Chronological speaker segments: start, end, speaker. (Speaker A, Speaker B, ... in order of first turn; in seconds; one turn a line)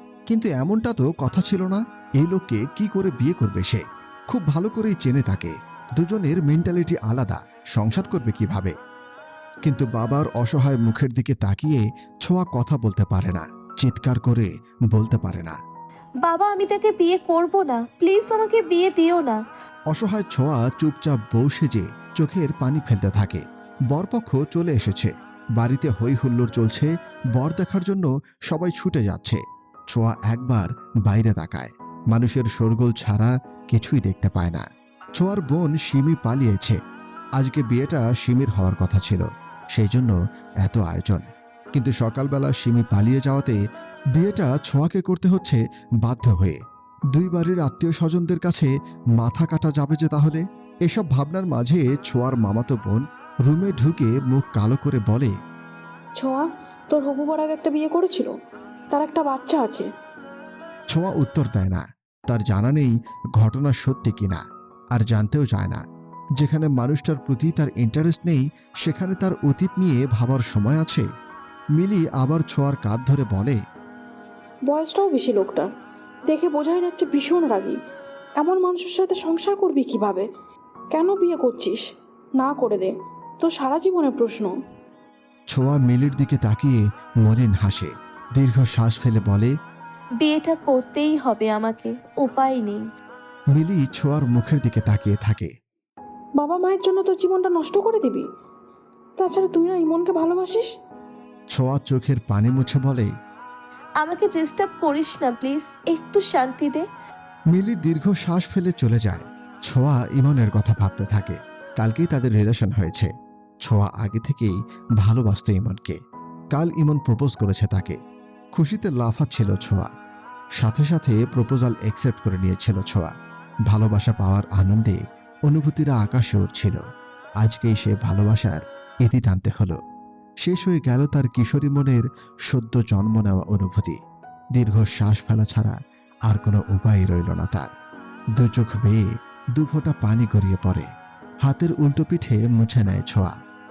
Speaker A: 0.3-8.7
Speaker A: 9.7-15.6
Speaker B: 16.2-19.4
Speaker A: 19.9-29.4
Speaker A: 29.9-34.6
Speaker A: 35.2-36.8
Speaker A: 37.4-43.6
Speaker A: 44.1-46.6
Speaker A: 47.1-55.3
Speaker C: 56.2-58.3
Speaker C: 58.9-59.9
Speaker A: 60.9-64.4
Speaker A: 64.9-65.8
Speaker A: 66.4-71.0
Speaker A: 71.8-73.6
Speaker C: 74.7-75.7
Speaker C: 76.3-77.8
Speaker C: 78.4-80.3
Speaker C: 80.9-81.8
Speaker C: 82.4-84.5
Speaker A: 85.5-89.5
Speaker B: 90.2-92.8
Speaker A: 93.5-95.5
Speaker C: 96.4-98.2
Speaker C: 99.2-100.7
Speaker A: 101.5-103.1
Speaker B: 104.0-106.8
Speaker A: 107.5-113.1
Speaker A: 113.7-116.0
Speaker A: 116.5-118.0
Speaker A: 118.5-119.9
Speaker A: 120.6-123.1
Speaker A: 123.7-126.8
Speaker A: 127.4-129.8
Speaker A: 130.4-134.0
Speaker A: 134.6-135.8
Speaker A: 136.3-137.7
Speaker A: 138.4-139.0
Speaker A: 139.6-140.9
Speaker A: 141.4-143.3